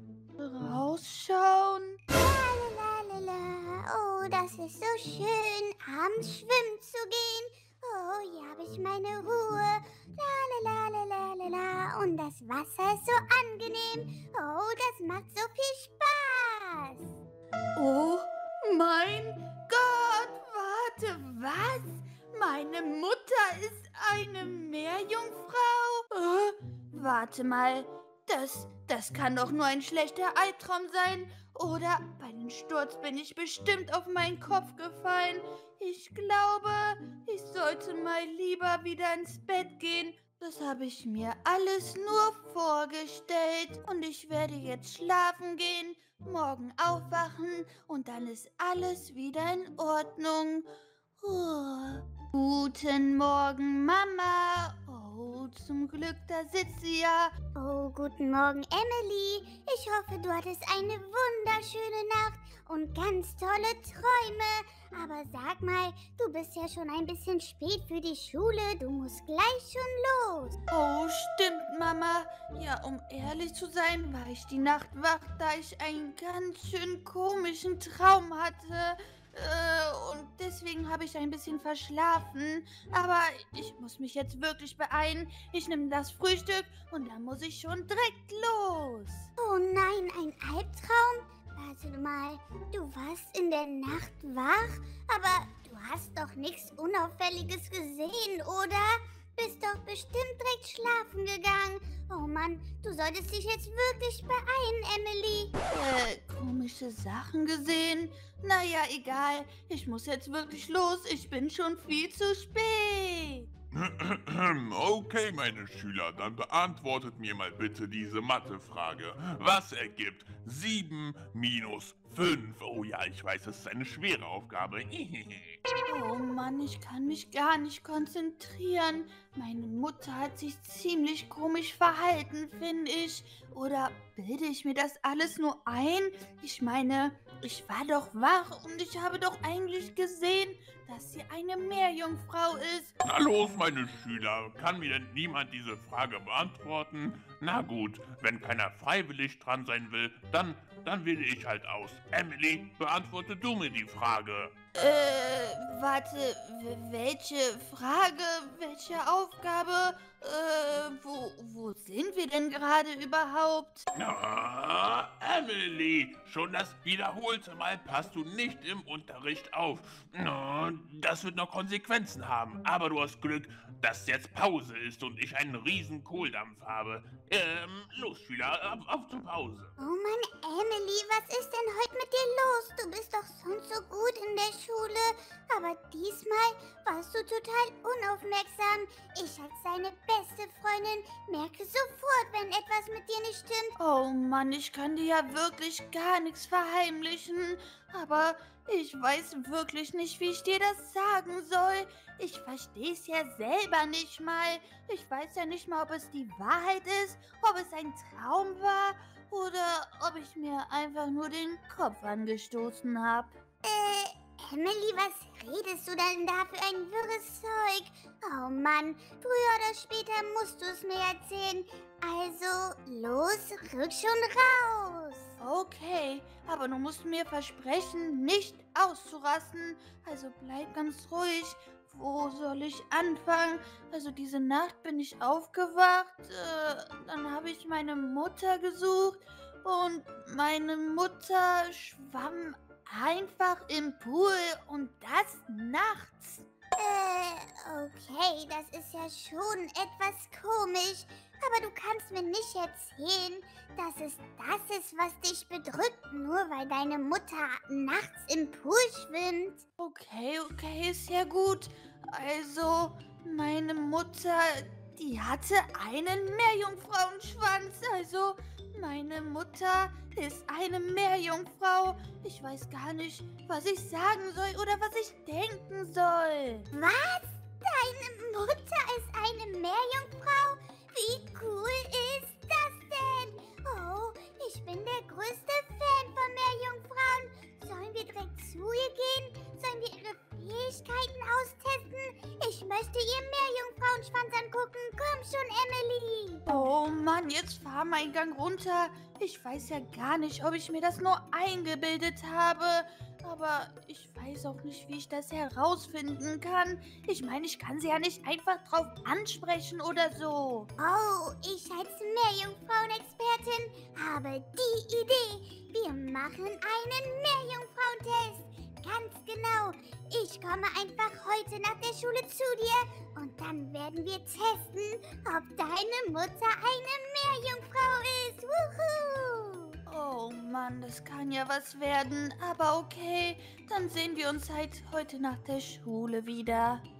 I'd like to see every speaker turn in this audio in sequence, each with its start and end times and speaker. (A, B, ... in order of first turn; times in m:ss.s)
0:00.4-0:02.0 A
0:02.1-0:17.1 B
0:17.8-0:50.7 A
0:51.2-0:57.3 A
0:57.5-1:10.6 B
1:10.7-1:29.3 A
1:29.4-1:45.5 B
1:45.7-1:53.5 A
1:53.7-2:05.6 C
2:05.9-2:22.9 A
2:23.0-2:34.5 C
2:34.7-2:43.9 A
2:43.9-2:59.7 C
2:59.8-3:13.8 B
3:13.8-3:33.4 A
3:33.6-3:45.3 B
3:45.4-4:06.5 A
4:06.8-4:19.6 B
4:19.8-4:36.7 A
4:36.7-4:56.4 B
4:56.5-5:10.7 A
5:10.8-5:29.7 B
5:29.9-5:36.8 A